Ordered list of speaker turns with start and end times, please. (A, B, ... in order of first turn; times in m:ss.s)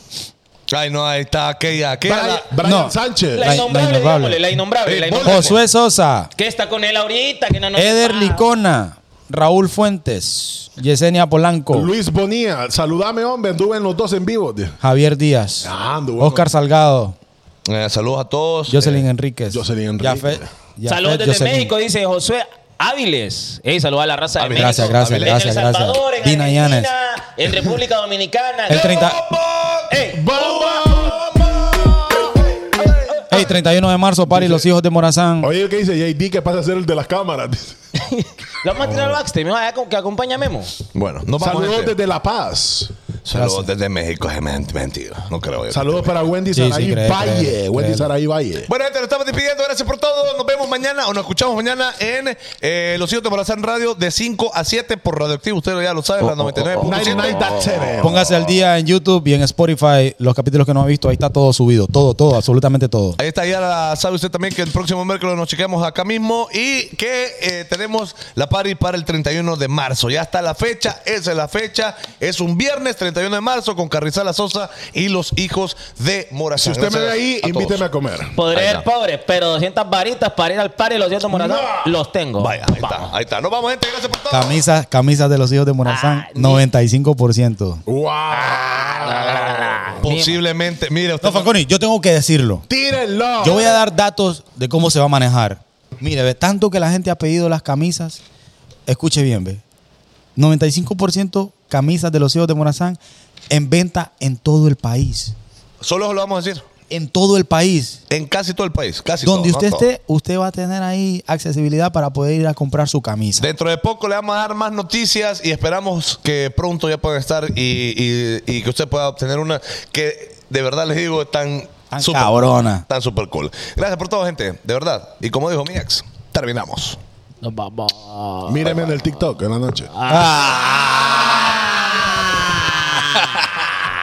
0:00.7-0:02.5 A
0:02.0-0:03.6 B
0:02.6-0:04.4 C
0:03.3-0:05.6 D
0:04.8-0:05.6 A
0:05.2-0:06.3 C
0:06.4-0:08.4 D
0:07.8-0:11.9 C
0:11.7-0:14.8 B
0:14.8-0:17.2 C
0:15.6-0:16.5 B
0:17.6-0:19.0 A
0:18.7-0:21.7 C
0:19.5-0:20.5 B
0:20.8-0:29.1 D
0:24.4-0:25.4 A
0:24.5-0:26.9 C
0:28.7-0:29.2 C
0:28.7-0:33.2 A
0:29.9-0:30.2 D
0:30.1-0:32.4 B
0:33.3-0:35.5 C
0:34.3-0:34.7 B
0:35.4-0:37.8 B
0:38.0-0:40.7 D
0:40.9-0:41.9 A
0:41.4-0:42.9 B
0:43.2-0:46.2 A
0:43.3-0:43.7 C
0:45.7-0:48.7 B
0:46.5-0:48.1 C
0:48.7-0:58.5 A
0:56.3-0:57.1 D
0:56.8-0:58.2 B
0:58.0-1:03.2 C
1:03.2-1:17.8 A
1:16.6-1:18.4 B
1:18.4-1:23.1 D
1:18.5-1:18.8 A
1:21.3-1:21.9 B
1:22.4-1:24.6 A
1:24.3-1:27.8 C
1:25.8-1:26.6 D
1:27.8-1:30.0 B
1:28.3-1:30.4 D
1:30.0-1:31.5 A
1:31.2-1:32.6 C
1:32.7-1:33.8 B
1:33.4-1:38.2 C
1:38.9-1:39.6 C
1:40.4-1:43.0 C
1:43.5-1:45.3 C
1:45.8-1:46.6 A
1:46.9-1:48.0 C
1:48.1-1:49.8 A
1:49.2-1:53.5 C
1:53.4-2:07.0 A
2:01.9-2:02.8 C
2:07.4-2:08.8 D
2:08.5-2:09.9 B
2:09.9-2:10.5 D
2:10.1-2:12.8 C